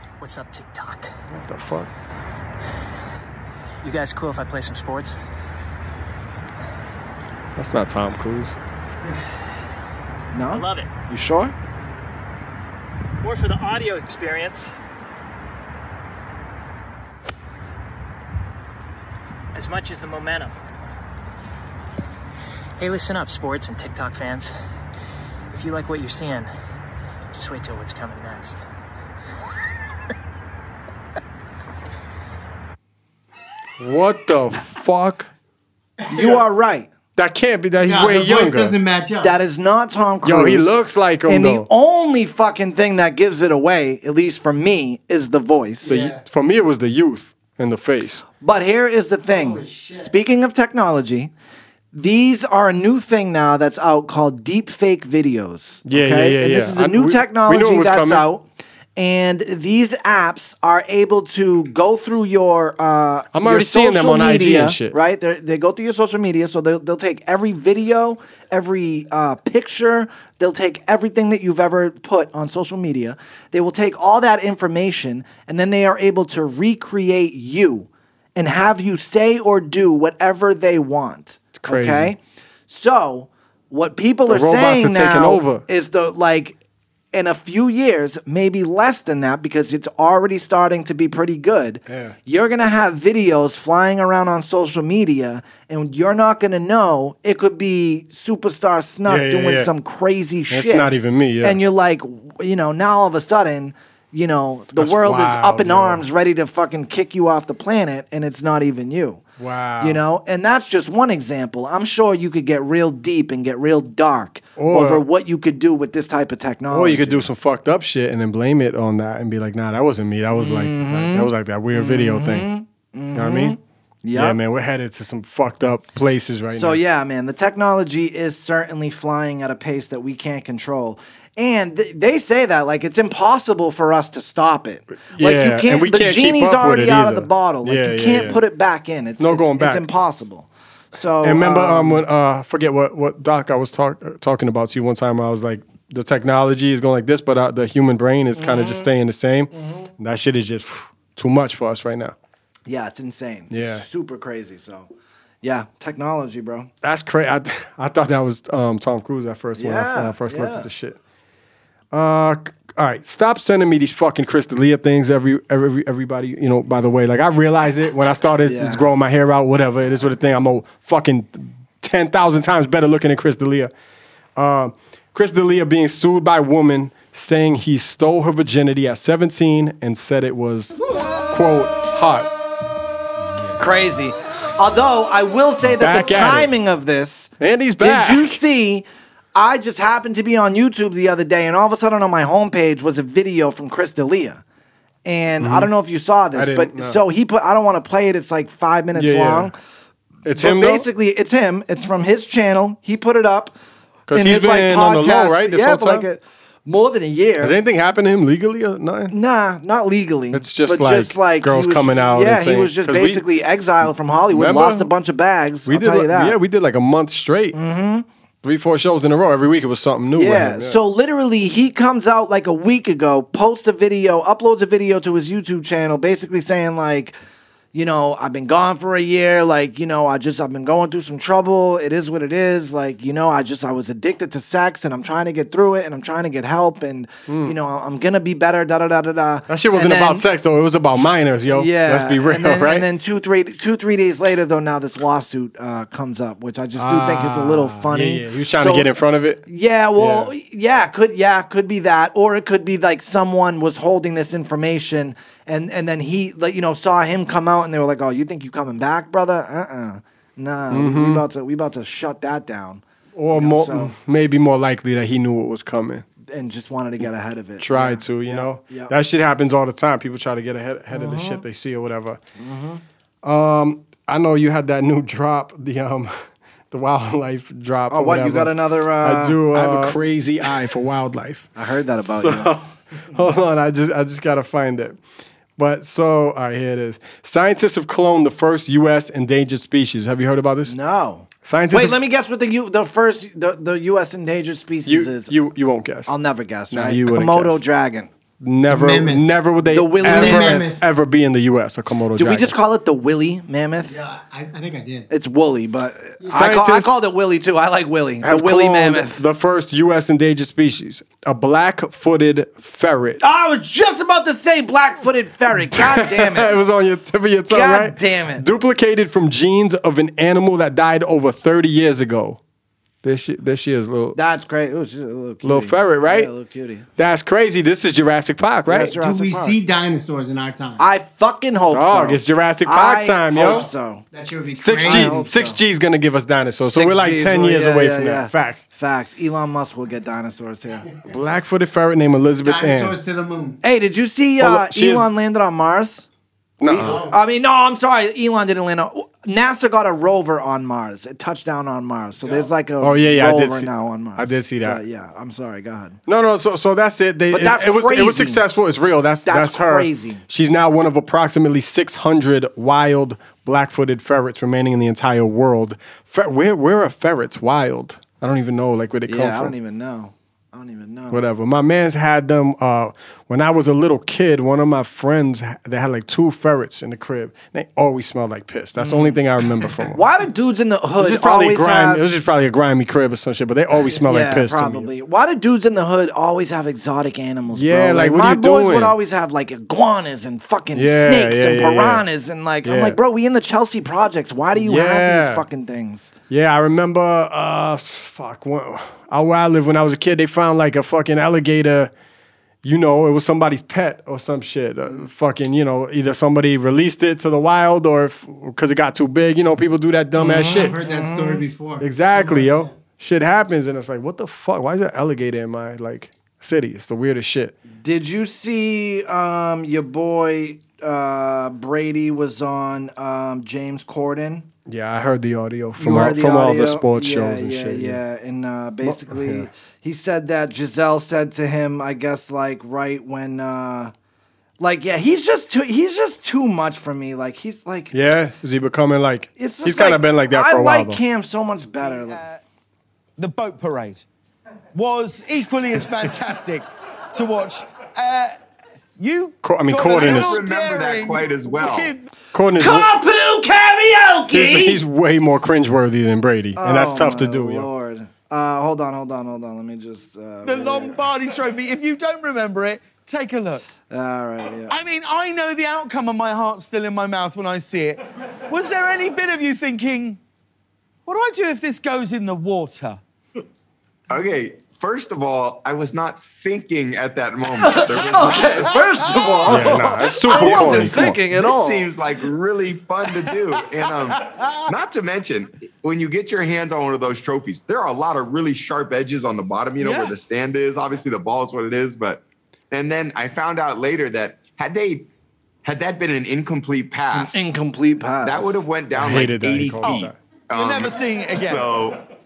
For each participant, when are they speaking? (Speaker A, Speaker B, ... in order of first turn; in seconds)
Speaker A: 0.2-1.1, 3.8-5.1, 10.5-10.9, 13.2-14.7, 19.5-20.5, 22.8-24.5, 25.5-26.5, 27.3-28.6
Speaker B: 1.3-1.9, 7.5-8.6, 33.8-35.3, 37.1-38.8, 40.2-41.7, 45.8-48.2, 55.9-58.2, 63.3-65.0, 81.5-82.1, 84.3-85.6, 91.9-92.2, 99.0-99.7, 100.5-101.6, 104.8-106.0, 109.4-110.0, 114.6-115.0, 116.7-122.5, 123.1-123.6, 124.1-126.8, 135.1-138.4, 139.2-139.8, 141.2-152.1, 153.5-153.8, 156.8-161.0, 161.9-173.7, 174.3-182.3, 185.8-186.5, 187.4-188.4, 195.4-195.7, 196.3-197.0, 198.9-199.5, 200.2-200.8, 204.1-206.1, 207.4-209.1, 210.3-213.2, 214.3-214.9, 215.7-217.6, 218.4-220.8, 237.3-237.6, 239.5-242.9, 246.8-249.4, 249.9-250.3, 260.7-261.2, 263.1-266.0, 267.6-272.2, 273.2-285.0, 285.6-290.7, 291.4-292.0, 294.9-296.1, 296.7-297.6, 298.4-302.5, 306.3-306.9, 308.2-313.2, 315.5-322.4, 323.0-324.2, 325.4-326.3, 327.0-329.0, 331.7-333.7, 334.6-338.6, 341.1-342.9, 344.4-345.1, 346.6-347.1, 352.8-354.8, 356.1-369.5, 371.1-380.0, 381.0-384.9, 387.5-389.0, 390.7-392.0, 392.6-393.0, 394.5-395.4, 396.3-401.9, 402.6-410.8, 411.8-417.5, 424.6-428.0, 428.8-429.5, 437.9-441.0, 449.4-450.4, 452.3-453.0, 454.3-457.7, 479.4-481.2, 498.9-500.1
Speaker C: 10.3-11.5, 36.1-36.9, 39.2-46.0, 48.4-51.3, 51.9-58.4, 59.0-86.6, 87.1-109.2, 109.8-117.2, 120.3-124.4, 126.5-142.0, 148.4-148.9, 149.5-149.9, 152.7-154.9, 155.4-156.7, 159.6-160.7, 168.4-168.9, 183.6-188.8, 189.3-194.4, 195.0-199.5, 200.4-203.5, 204.1-207.5, 209.1-216.4, 217.5-218.1, 220.2-227.1, 227.7-240.2, 241.5-248.9, 249.4-262.8, 263.3-263.9, 266.3-268.9, 270.9-271.4, 272.4-272.8, 277.9-280.0, 281.6-282.6, 290.7-295.3, 296.1-298.1, 299.6-300.6, 302.1-303.9, 305.1-309.2, 313.2-316.6, 317.5-318.4, 324.1-326.9, 328.7-329.6, 330.8-334.0, 334.8-335.6, 336.6-340.9, 343.6-346.1, 346.6-356.0, 357.3-358.4, 359.2-360.2, 369.1-371.2, 378.8-379.2, 379.9-382.0, 384.1-396.1, 410.2-411.4, 417.8-424.4, 425.8-433.9, 434.6-437.9, 439.4-442.2, 452.6-454.8, 456.6-461.0, 463.9-464.7, 477.6-481.9, 497.1-498.7
Speaker D: 36.1-36.4, 37.8-39.3, 45.8-46.2, 49.4-49.8, 298.7-299.3, 300.0-300.8, 303.9-305.1, 329.0-330.8, 334.1-335.2, 342.4-343.6, 346.8-347.1, 352.2-352.5, 410.2-412.7
Speaker E: 441.8-442.4, 443.2-444.1, 444.7-448.4, 449.0-452.1, 460.4-463.6, 464.7-470.2, 471.1-473.0, 489.8-490.1, 500.5-501.7
Speaker F: 449.8-451.9, 474.1-495.1, 495.6-497.5, 498.2-502.0